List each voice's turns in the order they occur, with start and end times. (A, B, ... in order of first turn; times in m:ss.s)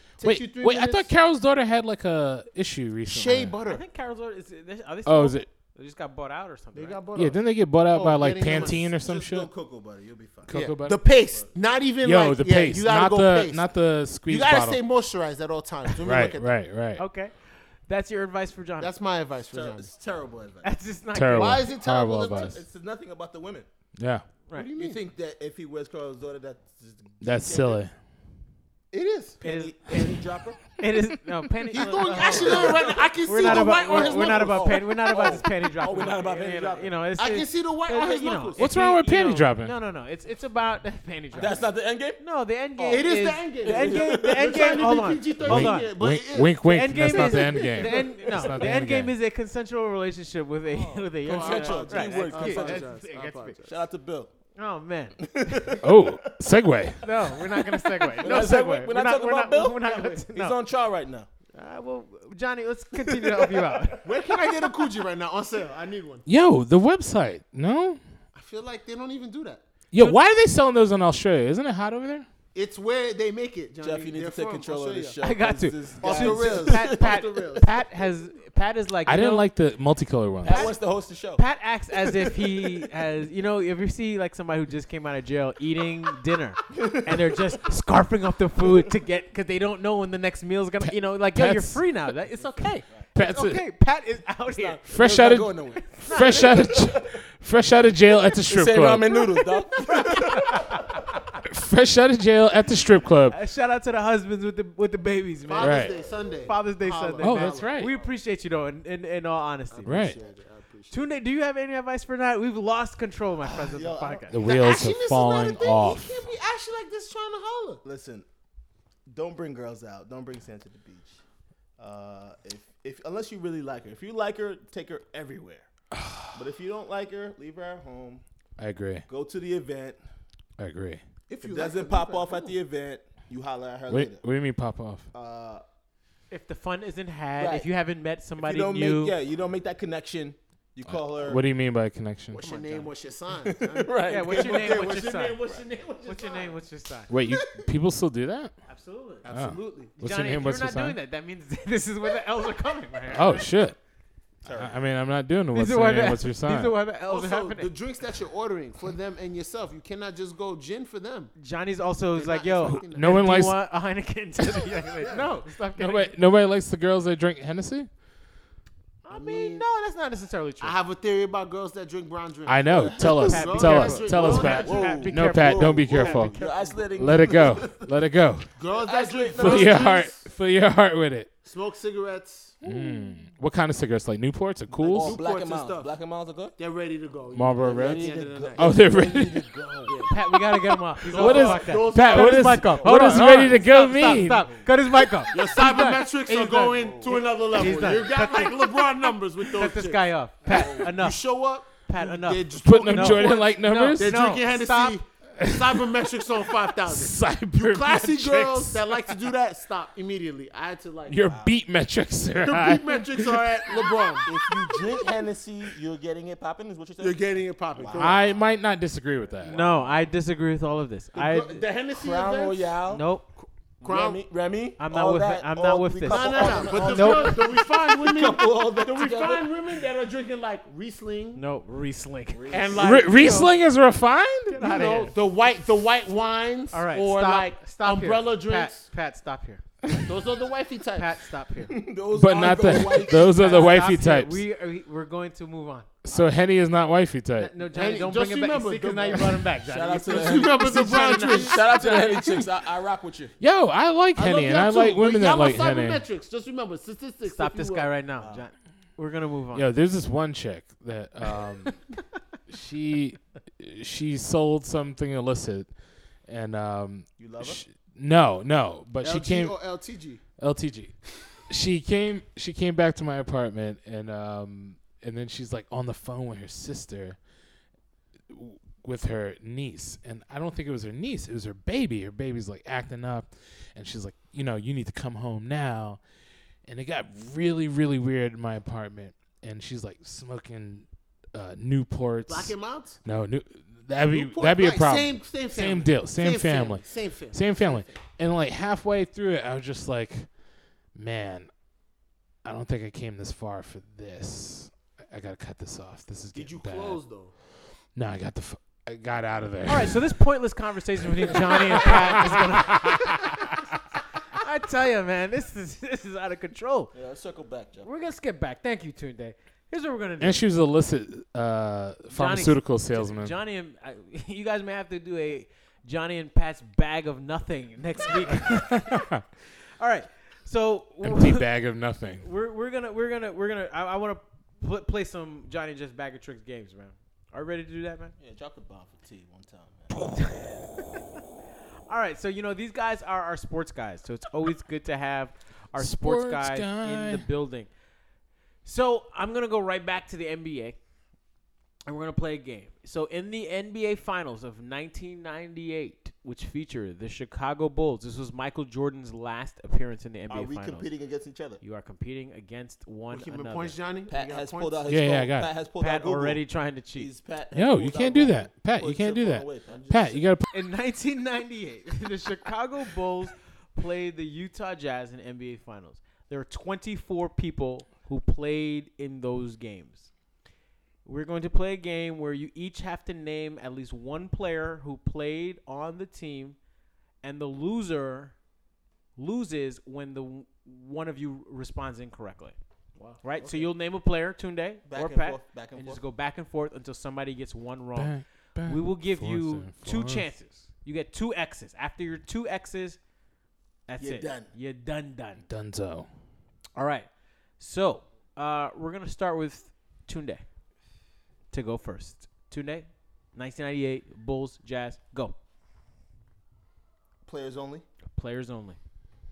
0:00.2-0:01.1 A
0:00.2-0:03.5 B
0:03.1-0:03.8 A
0:03.7-0:07.0 C
0:05.1-0:05.5 B
0:06.7-0:08.8 A
0:07.1-0:09.5 B
0:08.5-0:10.5 D
0:10.5-0:11.0 B
0:10.5-0:13.7 A
0:12.0-0:14.8 B
0:14.2-0:16.5 A
0:16.0-0:17.0 B
0:17.0-0:18.9 C
0:18.8-0:19.9 A
0:19.5-0:20.8 D
0:20.6-0:21.7 C
0:21.1-0:22.6 B
0:21.3-0:22.6 A
0:22.2-0:23.7 D
0:24.0-0:24.2 B
0:24.5-0:25.0 A
0:24.8-0:27.8 D
0:27.2-0:27.9 B
0:28.9-0:29.4 A
0:29.4-0:30.8 D
0:29.4-0:30.2 C
0:30.8-0:45.9 C
0:31.7-0:35.4 A
0:32.0-0:36.9 D
0:37.2-0:38.6 A
0:38.6-0:39.7 B
0:41.3-0:42.2 D
0:42.8-0:43.1 D
0:42.8-0:48.3 A
0:43.6-0:44.9 D
0:45.4-0:49.1 B
0:46.7-0:53.6 C
0:50.7-0:53.1 D
0:51.3-0:53.7 A
0:53.7-0:54.3 D
0:54.6-0:55.8 C
0:55.2-0:56.2 D
0:55.8-0:57.0 B
0:57.0-1:00.6 C
0:58.0-1:01.3 D
1:01.5-1:04.1 C
1:03.0-1:04.9 D
1:04.0-1:06.3 A
1:06.3-1:08.0 B
1:08.4-1:09.6 A
1:09.9-1:12.3 B
1:12.5-1:15.2 A
1:13.8-1:17.3 D
1:15.2-1:19.5 C
1:16.0-1:17.7 A
1:19.1-1:20.7 B
1:20.4-1:21.4 D
1:20.4-1:20.8 C
1:21.4-1:34.8 C
1:22.2-1:22.7 D
1:26.7-1:27.4 D
1:30.9-1:31.8 B
1:32.4-1:33.0 D
1:33.2-1:33.6 B
1:34.5-1:37.2 D
1:34.9-1:39.2 B
1:35.9-1:36.7 C
1:38.2-1:40.8 D
1:39.9-1:41.0 C
1:41.4-1:43.4 B
1:43.3-1:50.2 C
1:45.5-1:47.7 A
1:45.6-1:45.9 B
1:47.2-1:47.9 B
1:49.7-1:51.1 A
1:49.9-1:50.2 B
1:50.9-1:54.5 C
1:53.5-1:54.3 D
1:54.3-1:56.2 B
1:54.4-1:57.8 A
1:57.8-1:58.3 D
1:59.1-2:01.2 D
2:01.8-2:05.7 D
2:06.0-2:06.4 B
2:06.3-2:08.2 D
2:08.6-2:09.0 B
2:09.1-2:10.0 D
2:10.6-2:11.0 B
2:11.3-2:14.2 D
2:11.4-2:12.6 A
2:13.9-2:15.1 B
2:15.1-2:15.6 D
2:16.3-2:19.2 C
2:17.4-2:17.7 D
2:18.4-2:21.4 D
2:20.9-2:22.4 B
2:22.3-2:26.6 A
2:22.4-2:22.9 C
2:23.4-2:25.0 D
2:24.0-2:25.4 C
2:26.0-2:27.1 C
2:27.1-2:28.5 B
2:28.7-2:29.2 C
2:29.2-2:29.9 A
2:29.3-2:31.0 B
2:30.0-2:33.5 C
2:33.1-2:33.8 B
2:34.4-2:34.8 D
2:34.5-2:36.8 B
2:35.5-2:37.7 C
2:37.1-2:41.3 A
2:41.4-2:46.1 C
2:42.2-2:43.2 A
2:42.6-2:43.6 B
2:45.0-2:45.5 A
2:45.8-2:47.9 B
2:49.0-2:50.8 C
2:49.1-2:49.7 A
2:50.6-2:55.0 A
2:52.5-2:56.3 B
2:52.7-2:57.8 D
2:53.2-2:56.9 C
2:56.3-2:57.6 A
2:57.0-2:58.5 B
2:58.6-3:00.2 A
2:58.8-2:59.9 D
2:59.4-3:01.3 B
3:01.4-3:02.6 A
3:02.6-3:05.2 B
3:04.7-3:06.6 D
3:04.9-3:05.9 A
3:06.6-3:08.7 A
3:07.3-3:10.0 B
3:07.6-3:10.1 D
3:10.1-3:16.7 C
3:11.1-3:13.3 A
3:11.1-3:14.6 B
3:12.8-3:14.6 D
3:14.0-3:14.6 A
3:15.3-3:31.3 A
3:16.3-3:18.0 D
3:17.5-3:21.2 C
3:20.5-3:20.9 D
3:21.9-3:25.0 C
3:22.6-3:24.2 B
3:25.4-3:25.9 B
3:26.8-3:29.0 B
3:31.1-3:33.4 B
3:31.3-3:31.6 D
3:32.4-3:35.2 A
3:34.2-3:37.2 D
3:37.0-3:38.3 A
3:37.8-3:38.5 D
3:37.9-3:39.6 B
3:39.4-3:40.0 D
3:39.4-3:41.6 C
3:41.1-3:42.8 A
3:41.9-3:43.0 D
3:42.9-3:43.3 C
3:43.4-3:44.2 A
3:43.8-3:49.6 D
3:44.8-3:47.3 C
3:46.0-3:51.4 A
3:51.4-3:52.6 C
3:52.3-3:53.0 D
3:52.5-3:53.6 A
3:52.8-3:54.6 B
3:54.5-3:55.1 C
3:54.6-3:58.8 A
3:56.7-3:59.6 C
4:00.0-4:01.1 A
4:01.0-4:01.8 C
4:01.7-4:03.6 D
4:02.1-4:04.4 B
4:03.2-4:05.9 C
4:06.0-4:07.5 B
4:07.4-4:11.9 C
4:07.7-4:09.5 A
4:09.7-4:13.4 D
4:10.0-4:11.7 A
4:13.4-4:16.0 B
4:14.2-4:17.9 A
4:17.3-4:19.7 C
4:18.2-4:18.4 D
4:19.5-4:21.8 B
4:22.5-4:25.7 B
4:26.3-4:29.6 B
4:27.2-4:27.6 D
4:29.0-4:30.2 A
4:30.4-4:37.2 B
4:38.3-4:46.0 B
4:46.7-5:00.3 B
4:52.3-4:53.0 A
4:54.1-4:57.9 A
5:01.0-5:01.5 B
5:02.4-5:07.0 B
5:06.3-5:07.3 A
5:08.0-5:10.0 B
5:09.7-5:13.6 C
5:11.2-5:13.4 B
5:14.2-5:16.9 C
5:16.9-5:17.9 D
5:17.8-5:20.4 C
5:20.2-5:23.3 B
5:22.1-5:29.1 C
5:28.5-5:29.2 B
5:29.8-5:31.5 C
5:31.0-5:32.2 B
5:32.2-5:38.1 C
5:38.2-5:40.1 D
5:40.1-5:40.6 C
5:41.9-5:47.7 C
5:45.8-5:47.3 B
5:48.6-5:50.8 C
5:51.9-6:00.9 C
6:00.3-6:01.6 D
6:01.6-6:03.8 C
6:03.1-6:04.8 A
6:04.1-6:06.4 D
6:04.9-6:05.5 B
6:05.8-6:07.1 C
6:06.9-6:10.2 D
6:07.5-6:10.5 B
6:10.5-6:20.1 C
6:21.0-6:26.6 C
6:27.2-6:28.4 C
6:29.2-6:32.6 C
6:33.0-6:33.6 A
6:33.2-6:43.0 C
6:34.9-6:36.0 D
6:38.0-6:40.3 B
6:43.9-6:45.4 C
6:44.0-6:44.5 D
6:45.5-6:46.1 B
6:46.8-6:50.4 C
6:51.5-6:55.4 C
6:57.3-6:57.9 D
6:58.1-6:58.8 C